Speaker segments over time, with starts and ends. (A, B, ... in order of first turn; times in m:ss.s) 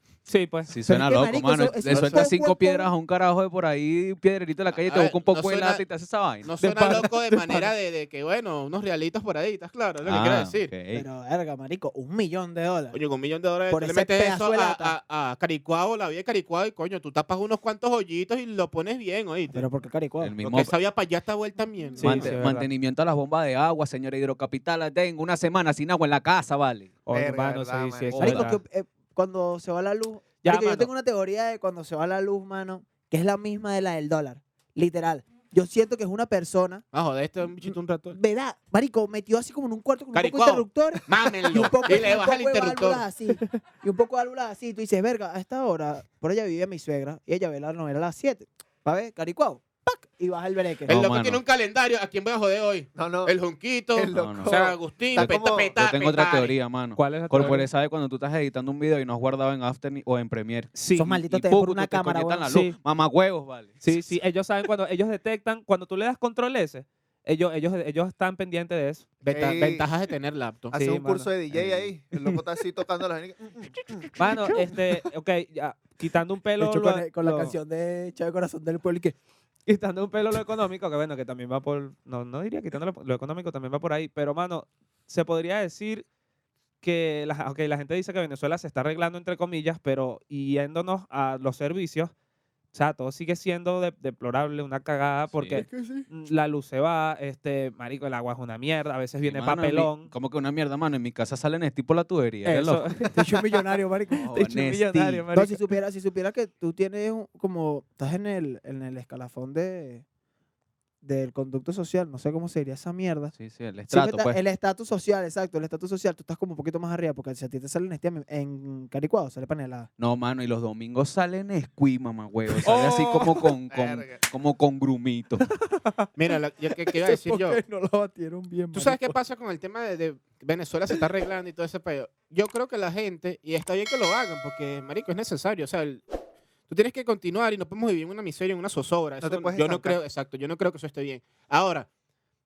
0:00.3-0:00.7 A
0:00.7-0:06.5 B
0:00.8-0:02.9 C
0:01.9-0:02.2 D
0:04.8-0:05.8 E
0:06.4-0:10.7 E
0:06.6-0:07.7 C
0:06.7-0:07.0 A
0:10.0-0:11.0 B
0:10.9-0:13.0 C
0:12.9-0:19.6 E
0:13.7-0:14.9 C
0:19.5-0:20.3 C
0:20.2-0:20.7 B
0:20.4-0:22.4 E
0:22.0-0:22.7 A
0:22.0-0:26.9 B
0:27.0-0:28.6 A
0:27.1-0:28.2 D
0:28.1-0:28.5 B
0:28.2-0:36.8 C
0:30.4-0:30.9 A
0:36.9-0:38.2 E
0:37.6-0:50.9 C
0:40.1-0:43.0 E
0:50.9-0:51.4 B
0:50.9-0:56.6 E
0:52.9-0:53.3 D
0:53.9-0:55.7 D
0:54.1-0:54.6 B
0:55.1-1:04.0 B
0:57.0-0:57.7 A
1:00.7-1:01.1 A
1:00.9-1:02.5 C
1:02.5-1:02.8 A
1:03.8-1:09.2 A
1:09.2-1:10.7 E
1:09.2-1:09.9 D
1:10.7-1:11.3 A
1:10.7-1:14.7 D
1:11.5-1:11.9 B
1:14.2-1:17.5 A
1:16.6-1:19.2 C
1:19.7-1:26.0 A
1:26.8-1:32.1 A
1:32.7-1:40.1 A
1:35.3-1:35.6 B
1:39.2-1:42.9 B
1:42.4-1:43.2 A
1:43.1-1:44.4 C
1:44.1-1:45.3 B
1:44.3-1:45.6 A
1:45.3-1:50.0 C
1:51.0-1:53.3 C
1:53.3-1:54.4 B
1:53.9-1:59.9 C
2:00.0-2:05.4 B
2:03.7-2:04.2 D
2:06.2-2:07.6 E
2:06.9-2:09.2 C
2:08.7-2:16.0 E
2:16.7-2:21.9 E
2:19.2-2:20.0 D